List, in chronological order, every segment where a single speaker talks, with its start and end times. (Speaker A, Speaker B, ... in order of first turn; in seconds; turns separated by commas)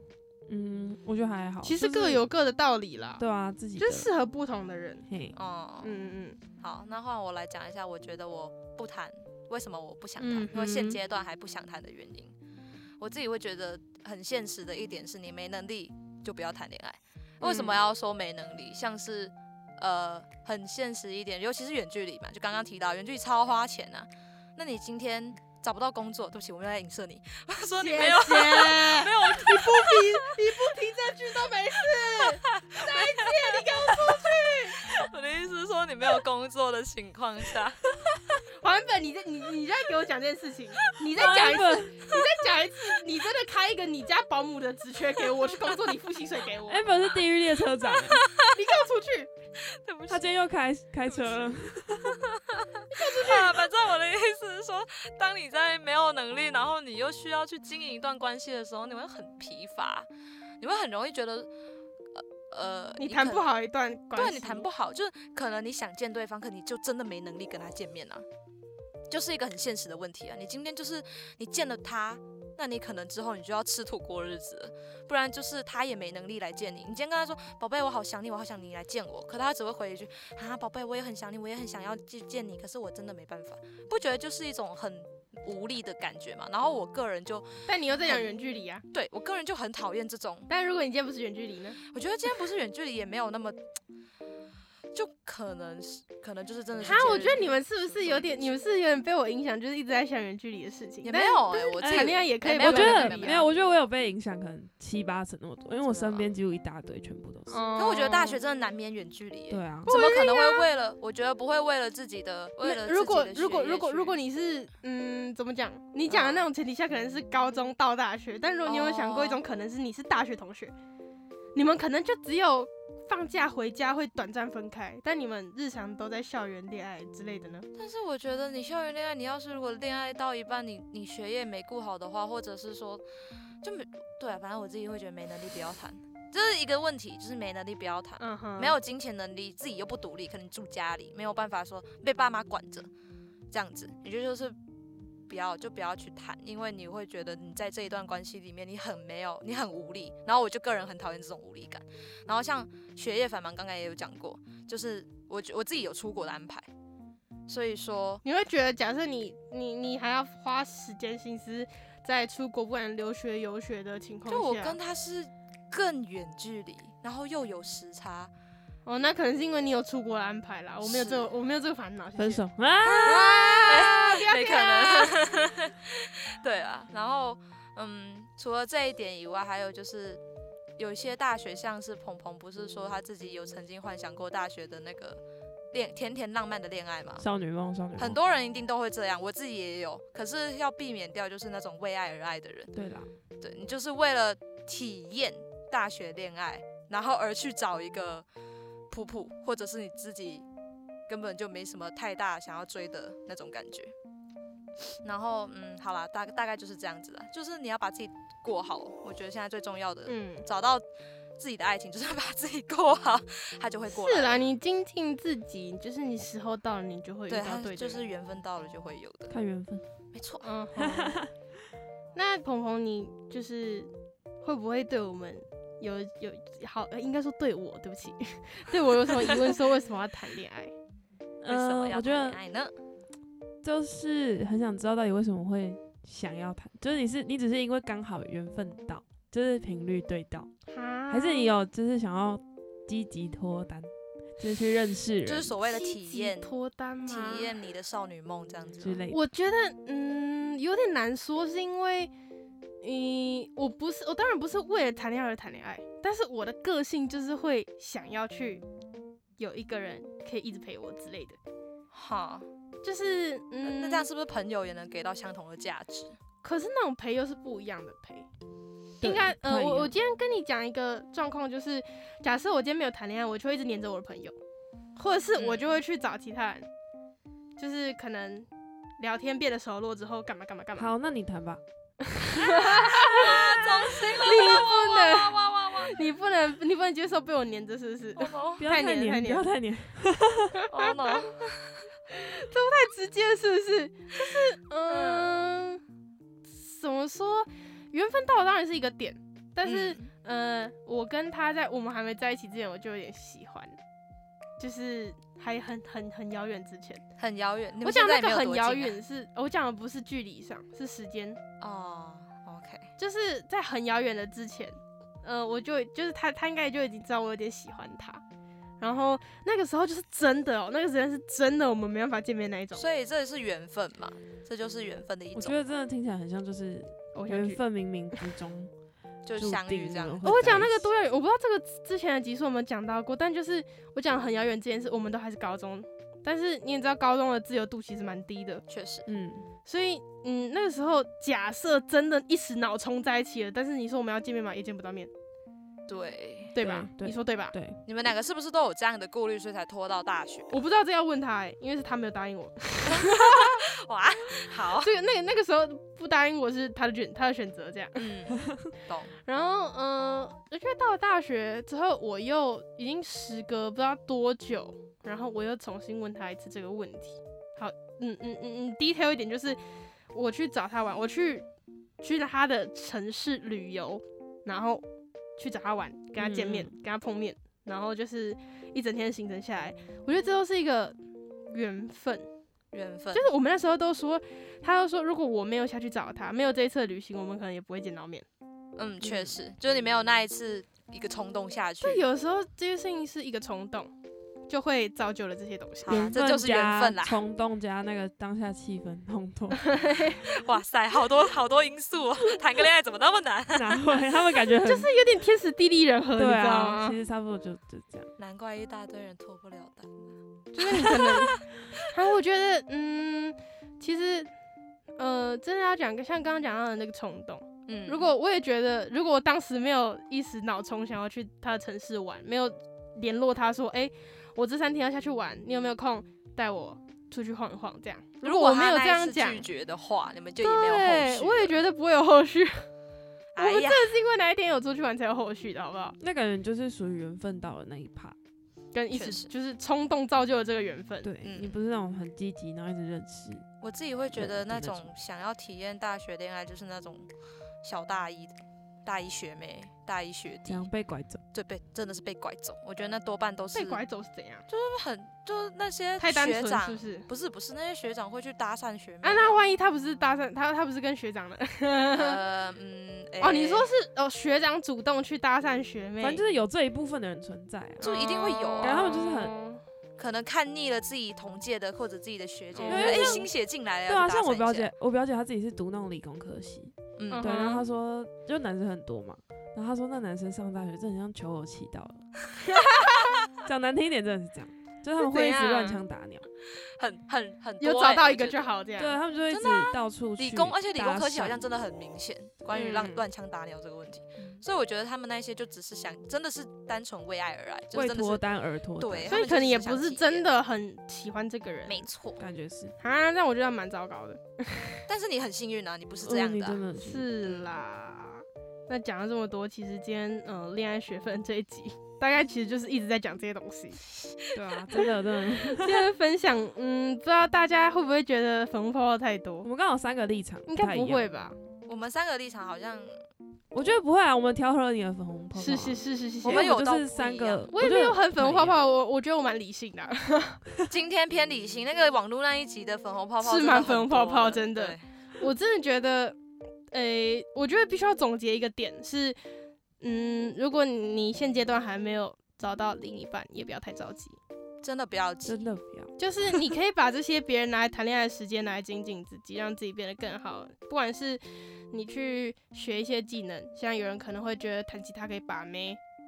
Speaker A: 0.5-2.3, Speaker B: 1.6-3.2, Speaker A: 3.2-4.1, Speaker B: 3.8-5.0, Speaker A: 5.1-5.4, Speaker C: 5.3-5.9, Speaker B: 5.8-6.4, Speaker C: 6.6-12.4, Speaker B: 10.2-11.0, Speaker C: 13.0-30.6, Speaker B: 17.4-17.8, Speaker B: 27.8-34.8, Speaker C: 31.9-37.8, Speaker B: 38.6-46.9, Speaker A: 41.1-42.1, Speaker A: 46.7-48.2, Speaker C: 48.0-48.5, Speaker B: 48.5-49.3, Speaker C: 49.7-50.3, Speaker A: 50.1-52.2, Speaker C: 52.2-60.1, Speaker B: 52.9-53.6, Speaker C: 60.6-61.5, Speaker C: 62.1-63.5, Speaker B: 63.0-64.7, Speaker C: 64.1-68.3, Speaker C: 69.1-88.3, Speaker B: 87.7-88.8, Speaker C: 88.9-90.5, Speaker B: 90.5-91.8, Speaker C: 91.8-93.6, Speaker C: 94.9-98.6, Speaker B: 96.8-103.5, Speaker C: 101.0-103.5, Speaker A: 101.8-107.6, Speaker C: 105.8-106.3, Speaker B: 107.5-108.4, Speaker C: 107.8-114.2, Speaker A: 109.5-109.9, Speaker B: 109.8-110.7, Speaker B: 112.6-120.7, Speaker C: 116.1-116.5, Speaker C: 118.7-119.4, Speaker B: 121.5-127.7, Speaker C: 127.8-133.0, Speaker C: 133.6-142.9, Speaker B: 138.2-138.8, Speaker C: 143.5-144.6, Speaker C: 145.3-156.7, Speaker C: 157.5-158.2, Speaker B: 158.2-164.8, Speaker C: 164.3-168.3, Speaker B: 168.9-175.2, Speaker C: 170.8-171.3, Speaker A: 172.2-173.2, Speaker C: 172.8-180.2, Speaker C: 180.8-185.2, Speaker C: 185.7-187.3, Speaker A: 187.2-188.2, Speaker C: 188.0-192.8, Speaker A: 192.8-193.1, Speaker C: 193.4-198.3, Speaker C: 198.9-200.5, Speaker C: 201.1-203.9, Speaker C: 205.0-210.9, Speaker B: 210.1-210.4, Speaker C: 211.4-214.4, Speaker B: 213.9-218.0, Speaker C: 217.3-219.4, Speaker A: 219.3-219.8, Speaker C: 220.1-220.5, Speaker B: 220.4-221.3, Speaker A: 220.8-221.3, Speaker B: 222.2-223.9, Speaker B: 224.4-230.7, Speaker A: 231.4-232.4, Speaker C: 231.5-232.7, Speaker A: 233.6-240.5, Speaker B: 240.7-241.5, Speaker A: 241.1-245.5, Speaker C: 245.2-246.5, Speaker B: 245.7-247.6, Speaker C: 247.1-249.0, Speaker A: 248.8-249.2, Speaker B: 249.1-252.1, Speaker B: 252.8-258.6, Speaker B: 259.4-261.4, Speaker C: 261.9-262.5, Speaker B: 262.8-264.1, Speaker C: 263.6-266.2, Speaker B: 266.4-268.3, Speaker A: 269.0-269.9, Speaker B: 269.0-274.4, Speaker B: 275.0-276.7, Speaker C: 275.4-275.8, Speaker B: 277.6-278.5, Speaker B: 279.0-280.9, Speaker A: 280.8-281.6, Speaker B: 282.0-289.5, Speaker C: 282.8-286.0, Speaker C: 288.2-288.7, Speaker A: 288.6-290.6, Speaker B: 290.6-291.4, Speaker C: 290.7-291.9, Speaker B: 292.1-295.8, Speaker C: 294.9-295.4, Speaker B: 296.4-303.8, Speaker C: 299.6-300.1, Speaker B: 304.6-307.1, Speaker C: 307.2-309.0, Speaker B: 307.8-311.4, Speaker C: 311.6-312.9, Speaker B: 313.0-318.2, Speaker B: 318.8-322.9, Speaker C: 322.8-325.6, Speaker A: 325.4-328.7, Speaker B: 327.1-327.6, Speaker C: 329.3-330.7, Speaker A: 329.3-330.9, Speaker B: 330.2-338.6, Speaker C: 338.7-339.1, Speaker A: 339.1-339.5, Speaker B: 339.7-345.1, Speaker C: 345.9-346.6, Speaker B: 346.6-347.6, Speaker A: 346.6-347.8, Speaker C: 347.9-350.5, Speaker B: 350.5-353.7, Speaker C: 352.9-354.9, Speaker B: 354.8-358.1, Speaker C: 358.0-359.1, Speaker B: 359.2-369.6, Speaker B: 370.1-371.5, Speaker B: 372.0-374.8, Speaker B: 375.4-381.0, Speaker A: 376.2-376.7, Speaker B: 381.5-382.3, Speaker C: 382.7-383.3, Speaker B: 383.1-388.3, Speaker C: 388.8-392.0, Speaker B: 391.8-393.9, Speaker B: 394.5-396.1, Speaker C: 395.9-397.2, Speaker A: 395.9-399.9, Speaker B: 399.6-400.2, Speaker C: 400.2-404.0, Speaker A: 403.6-404.9, Speaker B: 404.6-407.0, Speaker A: 406.2-408.1, Speaker C: 408.2-410.1, Speaker B: 410.5-414.3, Speaker C: 410.8-411.1, Speaker B: 415.0-429.5, Speaker C: 417.7-418.1, Speaker C: 428.2-431.6, Speaker B: 430.4-432.7, Speaker C: 433.4-434.0, Speaker B: 433.4-436.0, Speaker A: 436.0-438.2, Speaker B: 438.7-441.1, Speaker C: 438.9-439.3, Speaker A: 441.0-443.5, Speaker C: 441.2-441.6, Speaker C: 443.6-447.1, Speaker A: 444.1-444.9, Speaker C: 447.6-450.7, Speaker A: 450.5-451.2, Speaker C: 451.3-453.8, Speaker B: 453.6-454.4, Speaker C: 454.5-459.4, Speaker B: 456.0-457.1, Speaker B: 459.0-462.2, Speaker C: 461.9-463.7, Speaker B: 463.2-466.2, Speaker A: 466.0-467.9, Speaker C: 467.8-469.0, Speaker B: 467.8-469.6, Speaker A: 468.6-469.4, Speaker C: 470.0-474.7, Speaker B: 472.5-473.2, Speaker A: 472.7-473.3, Speaker A: 473.9-482.1, Speaker C: 477.0-477.3, Speaker B: 477.1-477.6, Speaker B: 482.4-483.1, Speaker A: 483.4-486.2, Speaker B: 485.0-485.8, Speaker C: 486.6-488.6, Speaker B: 487.6-489.0, Speaker A: 488.8-491.4, Speaker C: 489.3-498.2, Speaker B: 492.5-493.1, Speaker A: 497.7-499.2, Speaker C: 498.8-500.3, Speaker B: 499.1-501.9, Speaker C: 501.7-502.3, Speaker A: 502.2-502.8, Speaker B: 502.8-504.8, Speaker C: 504.9-506.6, Speaker A: 506.0-507.1, Speaker B: 506.8-513.8, Speaker C: 507.2-507.6, Speaker C: 514.2-514.9, Speaker A: 514.3-515.9, Speaker B: 515.4-519.5, Speaker A: 519.4-521.1, Speaker B: 520.5-521.4, Speaker C: 521.7-523.0, Speaker A: 523.5-528.6, Speaker B: 525.4-526.5, Speaker C: 526.2-527.5, Speaker B: 527.5-530.4, Speaker C: 530.7-534.9, Speaker B: 533.2-536.2, Speaker B: 536.7-539.2, Speaker B: 539.8-544.2, Speaker C: 544.6-545.5, Speaker A: 545.3-546.0, Speaker B: 546.0-555.8